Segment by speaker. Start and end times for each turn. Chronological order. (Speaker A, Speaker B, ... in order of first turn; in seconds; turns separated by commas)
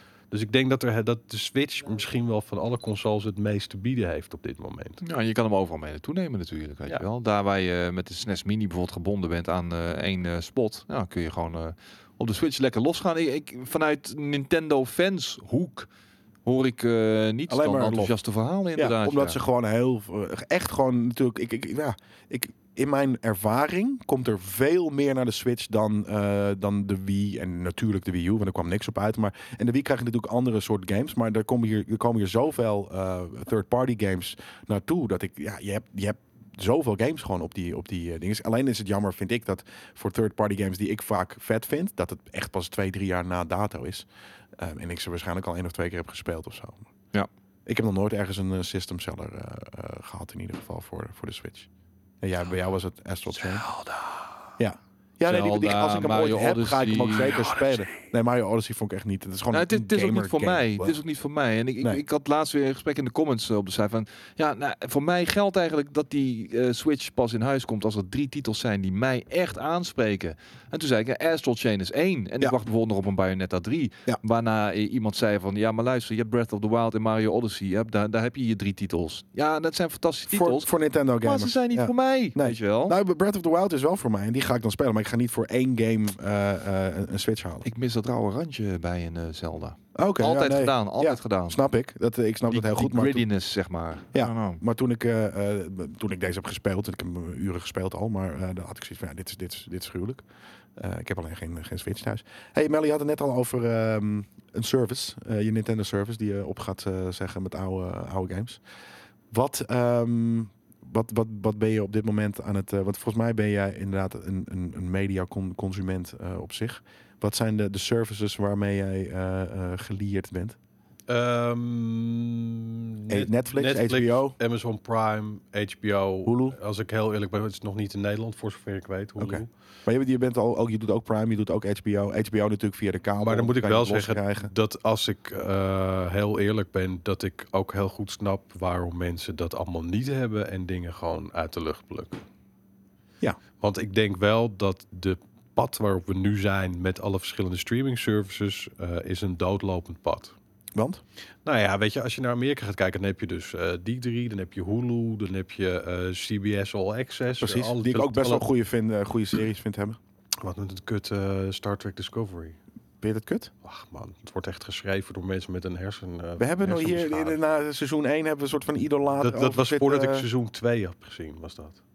Speaker A: 0.3-5.0, Speaker B: 5.0-15.9, Speaker B: 16.4-19.4, Speaker C: 17.5-18.1, Speaker C: 18.8-44.1, Speaker C: 44.6-46.9, Speaker C: 47.7-51.7, Speaker C: 52.2-53.7, Speaker C: 54.6-61.0, Speaker B: 55.2-57.6, Speaker B: 59.5-80.7, Speaker C: 80.3-87.7, Speaker B: 81.2-83.0, Speaker B: 87.7-91.6, Speaker C: 90.0-93.2, Speaker B: 92.5-94.6, Speaker C: 94.1-100.2, Speaker C: 100.8-108.6, Speaker C: 109.3-120.6, Speaker A: 121.1-129.5, Speaker C: 123.1-124.3, Speaker C: 126.3-126.6, Speaker C: 129.2-134.5, Speaker A: 133.2-142.2, Speaker A: 143.6-150.3, Speaker C: 150.8-151.0, Speaker A: 151.4-158.5, Speaker C: 157.4-160.0, Speaker A: 160.4-162.6, Speaker C: 163.0-163.5, Speaker A: 163.6-167.4, Speaker C: 166.4-170.3, Speaker A: 169.2-171.8